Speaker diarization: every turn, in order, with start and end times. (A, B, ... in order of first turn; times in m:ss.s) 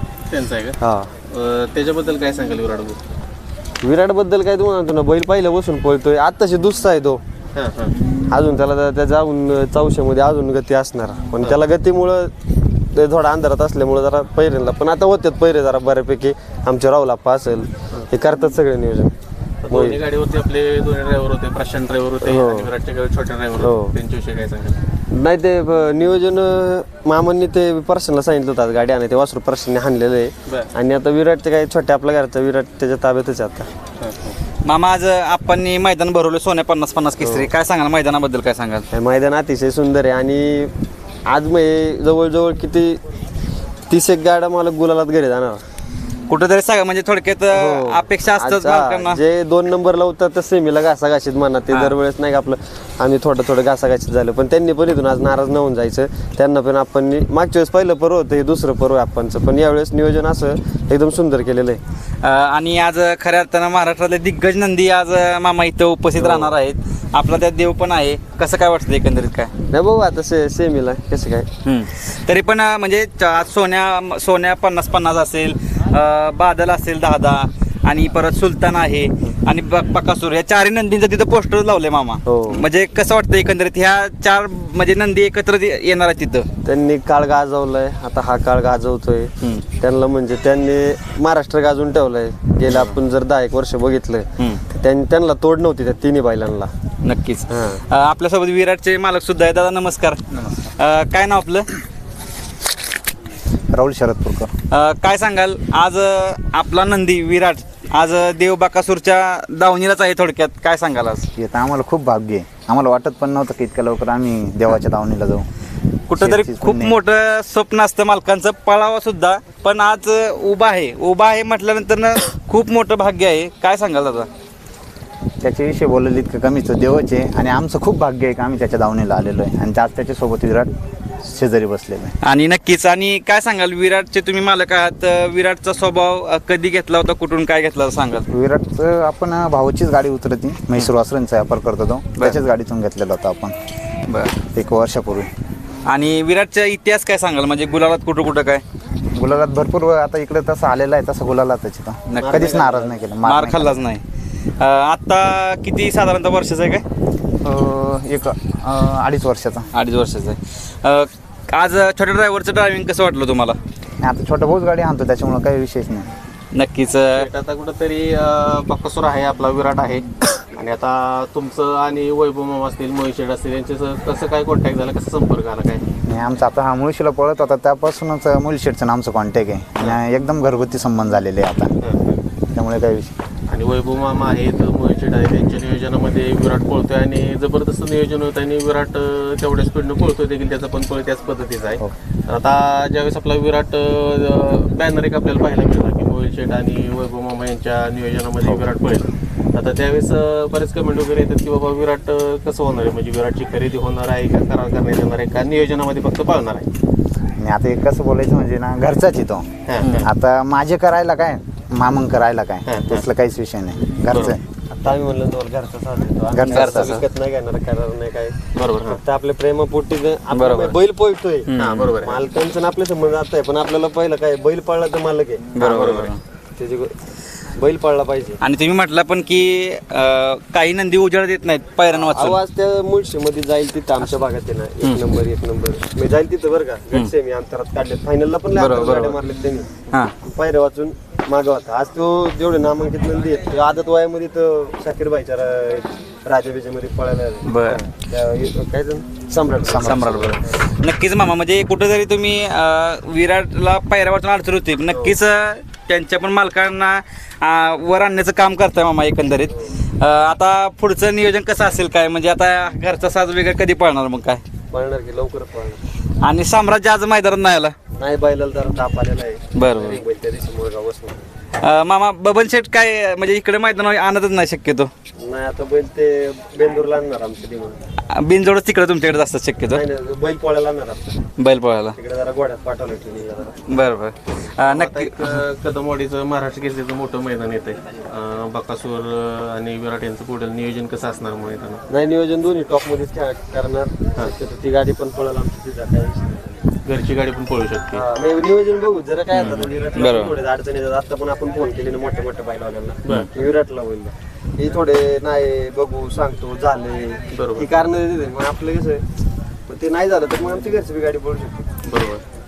0:00.3-0:03.0 A
0:00.8-0:01.1 B
0:03.8-0:07.2 B
0:07.5-0:07.9 A
0:08.3-0:12.3 B
0:12.8-0:19.1 B
0:19.6-0:24.8 A
0:19.7-0:20.0 B
0:22.2-0:22.7 B
0:23.6-0:23.9 B
0:25.1-0:33.7 B
0:34.0-0:34.4 A
0:34.6-0:38.9 C
0:37.2-0:37.5 B
0:38.9-0:40.7 B
0:41.2-0:43.0 B
0:43.9-0:45.6 B
0:46.3-0:49.2 C
0:47.5-1:01.8 B
1:02.2-1:09.5 C
1:06.2-1:06.5 B
1:09.7-1:11.5 B
1:11.6-1:26.5 C
1:22.2-1:22.6 B
1:26.6-1:36.7 B
1:37.0-1:41.7 C
1:37.5-1:37.8 B
1:43.7-1:44.5 D
1:44.7-1:51.3 C
1:51.4-1:55.4 D
1:56.1-2:04.3 C
1:56.2-1:57.0 D
2:05.4-2:10.7 D
2:11.2-2:12.2 D
2:12.2-2:18.2 C
2:18.3-2:23.5 D
2:24.1-2:24.3 C
2:24.5-2:25.3 D
2:25.8-2:28.6 C
2:29.1-2:33.8 D
2:32.1-2:32.5 C
2:32.2-2:33.0 B
2:33.2-2:34.0 C
2:34.6-2:36.8 C
2:37.4-2:39.7 D
2:39.7-2:43.6 C
2:44.0-2:46.1 D
2:46.5-2:47.3 C
2:47.1-2:55.8 A
2:56.0-3:01.8 D
3:01.8-3:02.2 A
3:02.5-3:03.1 D
3:03.5-3:26.6 A
3:27.4-3:34.4 D
3:29.7-3:30.1 A
3:32.6-3:33.0 A
3:34.0-3:34.4 A
3:34.7-3:41.5 B
3:36.3-3:36.9 D
3:36.5-3:37.0 A
3:38.5-3:39.0 A
3:40.3-3:40.8 C
3:41.5-3:41.9 C
3:41.5-3:42.2 A
3:42.0-3:45.9 B
3:45.6-3:46.2 C
3:45.6-3:46.1 A
3:46.6-3:46.9 B
3:47.5-3:48.4 B
3:48.4-3:52.4 C
3:51.9-4:10.6 B
3:58.5-3:59.2 C
4:07.4-4:07.8 C
4:09.7-4:10.3 D
4:09.8-4:24.4 C
4:14.9-4:15.2 B
4:24.7-4:25.8 B
4:26.2-4:27.7 C
4:28.0-4:31.3 B
4:29.5-4:30.0 C
4:31.6-4:34.9 C
4:35.2-4:37.8 B
4:38.1-4:39.8 C
4:39.7-4:41.2 B
4:41.4-4:41.9 C
4:41.9-4:43.6 B
4:43.7-4:45.4 C
4:44.6-4:51.8 A
4:51.9-4:56.5 B
4:56.8-4:58.0 A
4:57.9-5:09.0 B
4:59.3-5:00.3 C
4:59.4-4:59.7 A
5:07.3-5:07.7 A
5:09.7-5:11.7 B
5:11.8-5:12.2 A